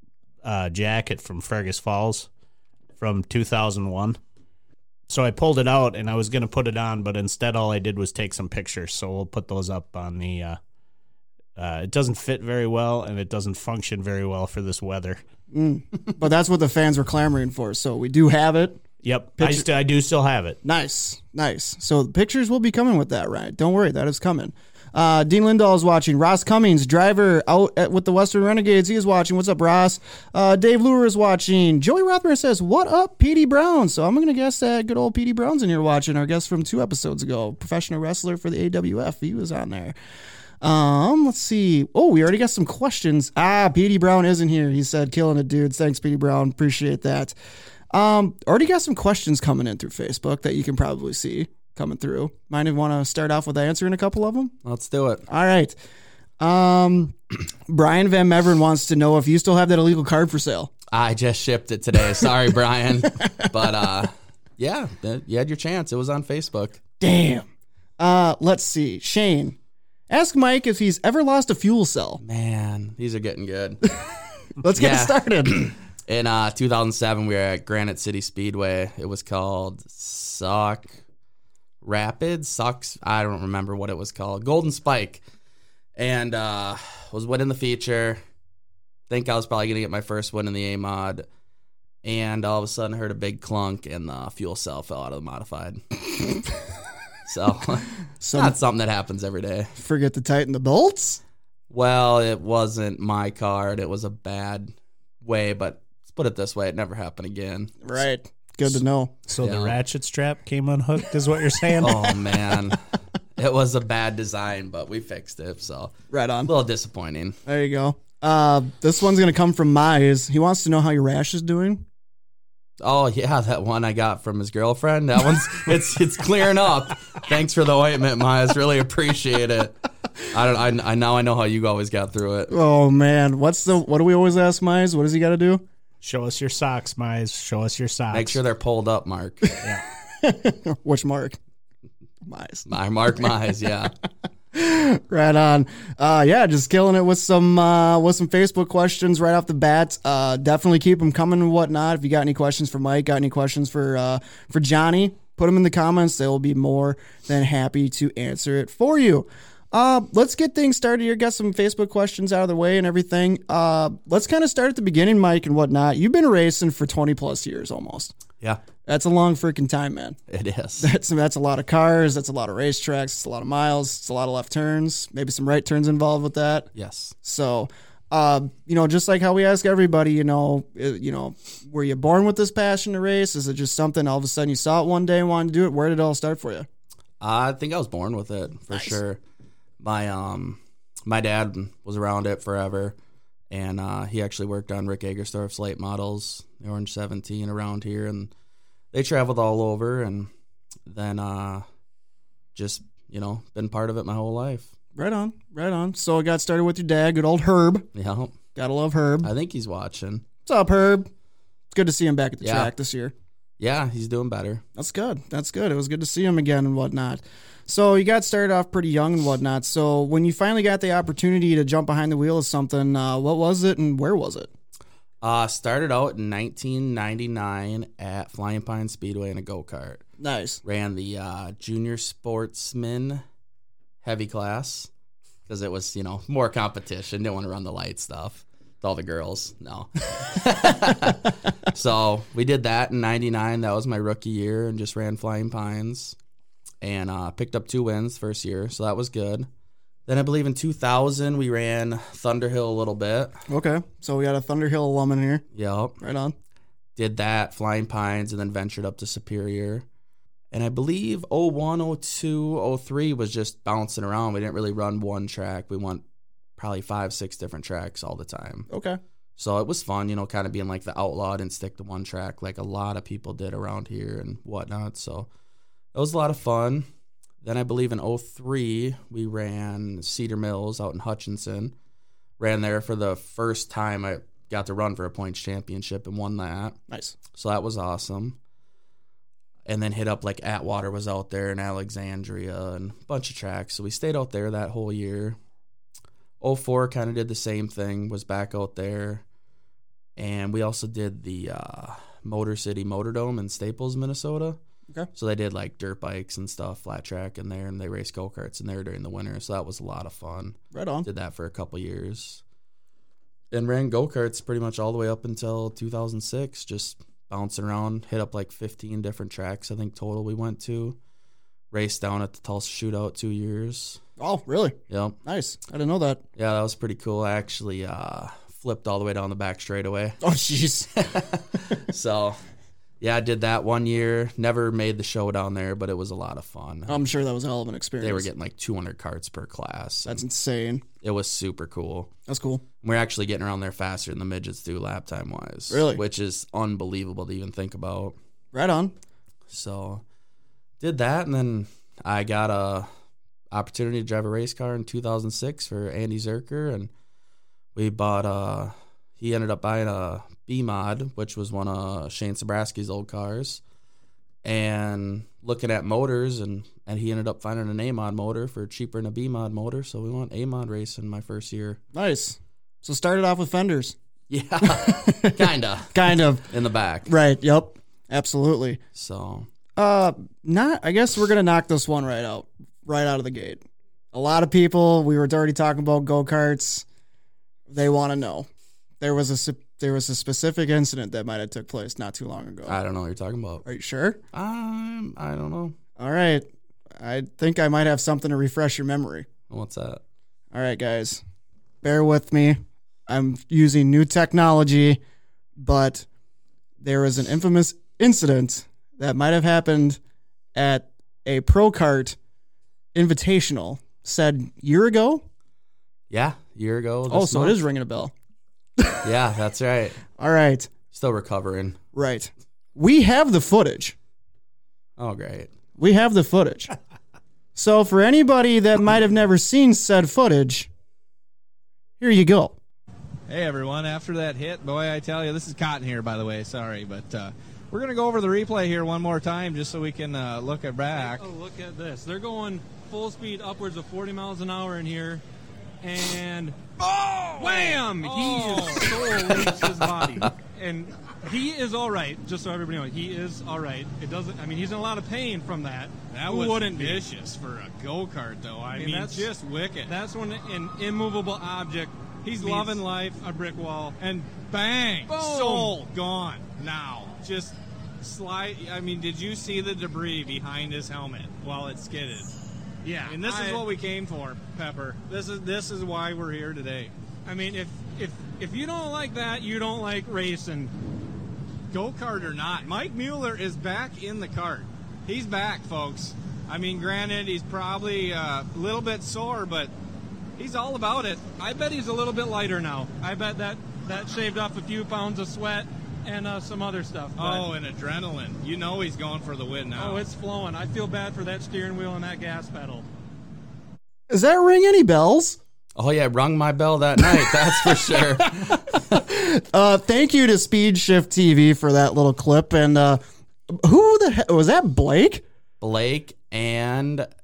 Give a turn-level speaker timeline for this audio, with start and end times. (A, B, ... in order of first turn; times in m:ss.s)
0:00.4-0:02.3 A
0:03.0-0:04.2 A
0:05.1-0:10.6 A
0:11.6-0:15.2 A
0:15.5-0:18.8 B
0:19.0-0:20.6 A
0:19.4-0:19.7 B
0:20.6-0:39.9 B
0:40.6-0:47.3 B
0:47.9-0:54.5 B
0:54.6-0:55.2 C
0:55.3-0:55.8 B
0:56.4-0:57.1 B
0:57.7-1:00.7 B
1:00.9-1:06.8 C
1:07.0-1:07.4 B
1:08.0-1:09.6 B
1:10.1-1:12.2 B
1:12.2-1:13.8 C
1:14.6-1:15.7 B
1:14.8-1:20.9 C
1:21.8-1:25.2 C
1:26.0-1:28.2 C
1:29.1-1:31.2 C
1:32.0-1:36.0 C
1:37.2-1:39.7 C
1:38.2-1:38.6 B
1:39.8-1:41.2 B
1:41.7-1:47.8 C
1:47.8-1:49.1 B
1:49.3-1:52.2 A
1:49.4-1:49.8 C
1:51.8-1:52.8 C
1:53.4-1:55.9 C
1:56.1-1:56.5 B
1:56.4-1:57.4 C
1:57.4-2:01.8 B
2:02.8-2:12.5 C
2:12.5-2:15.6 B
2:16.0-2:18.4 A
2:18.1-2:19.5 C
2:20.2-2:21.4 B
2:22.2-2:22.7 B
2:22.7-2:23.9 C
2:24.5-2:48.1 B
2:48.8-2:50.2 B
2:50.3-2:50.9 C
2:50.8-2:56.7 B
2:56.8-2:57.1 C
2:57.2-3:06.7 B
3:07.2-3:09.2 C
3:09.8-3:13.0 C
3:13.5-3:18.3 C
3:18.9-3:20.3 C
3:20.8-3:21.7 C
3:22.6-3:24.7 C
3:25.0-3:27.9 B
3:27.9-3:28.4 C
3:28.6-3:29.3 B
3:29.2-3:30.2 C
3:30.4-3:31.1 B
3:31.7-3:33.1 B
3:32.4-3:32.7 C
3:33.6-3:34.6 C
3:34.8-3:44.5 B
3:45.2-3:50.0 C
3:50.2-3:50.6 B
3:50.6-3:53.2 C
3:54.0-3:54.9 C
3:55.5-4:06.2 C
4:06.8-4:09.5 C
4:10.1-4:13.4 C
4:13.5-4:15.4 B
4:15.5-4:16.0 C
4:16.0-4:16.3 B
4:17.0-4:19.8 C
4:20.5-4:26.0 C
4:26.6-4:28.7 C
4:28.7-4:29.0 B
4:29.4-4:35.3 C
4:35.9-4:36.9 C
4:37.4-4:41.7 C
4:42.4-4:46.8 C
4:46.9-4:47.1 B
4:47.3-4:48.4 C
4:49.7-4:55.4 C
4:56.4-4:59.2 C
5:00.2-5:04.6 C
5:05.1-5:12.4 C
5:10.7-5:11.1 B
5:13.5-5:21.0 C
5:21.7-5:24.0 C
5:24.2-5:26.2 B
5:24.9-5:25.2 C
5:26.4-5:30.2 C
5:30.2-5:31.0 B
5:31.0-5:32.4 C
5:33.0-5:37.0 C
5:36.9-5:38.3 B
5:38.0-5:40.2 C
5:40.1-5:40.8 B
5:41.0-5:42.1 C
5:42.3-5:42.6 B
5:42.8-5:48.1 C
5:45.7-5:46.0 B
5:48.5-5:48.9 B
5:49.5-5:50.0 C
5:50.8-5:52.9 C
5:53.5-5:56.9 C
5:57.7-6:03.6 C
6:04.4-6:11.8 C
6:11.9-6:14.0 B
6:14.3-6:17.1 C
6:14.6-6:16.5 B
6:17.1-6:18.8 B
6:18.9-6:19.5 C
6:19.8-6:23.6 B
6:24.1-6:26.8 B
6:27.7-6:28.5 B
6:29.0-6:32.8 B
6:32.7-6:33.6 C
6:33.6-6:34.2 B
6:34.3-6:35.8 C
6:36.0-6:36.4 B
6:37.0-6:39.3 B
6:39.5-6:40.0 C
6:40.5-6:41.2 B
6:41.8-6:45.0 B
6:45.6-6:46.1 B
6:46.8-6:50.0 B
6:50.6-6:52.2 B
6:52.9-6:55.2 B
6:56.1-6:57.6 C
6:57.1-6:58.1 B
6:59.0-7:00.0 C
7:00.2-7:00.7 B
7:00.9-7:01.8 C
7:01.9-7:04.0 B
7:05.0-7:05.5 C
7:05.8-7:06.7 B
7:07.6-7:10.7 B
7:12.0-7:12.6 B
7:13.3-7:21.3 D
7:20.9-7:25.2 E
7:25.8-7:26.6 E
7:26.8-7:29.6 D
7:27.4-7:37.1 E
7:36.1-7:39.9 D
7:38.7-7:39.3 E
7:39.8-7:44.0 E
7:42.2-7:43.2 D
7:44.0-7:52.3 D
7:45.1-7:45.8 E
7:52.8-7:53.7 E
7:53.0-7:56.9 D
7:57.2-8:00.7 E
8:01.7-8:09.7 D
8:10.4-8:11.4 D
8:11.4-8:17.5 E
8:17.2-8:20.1 D
8:19.8-8:22.8 E
8:24.1-8:25.4 B
8:25.7-8:29.0 C
8:27.1-8:35.2 B
8:35.6-8:37.1 C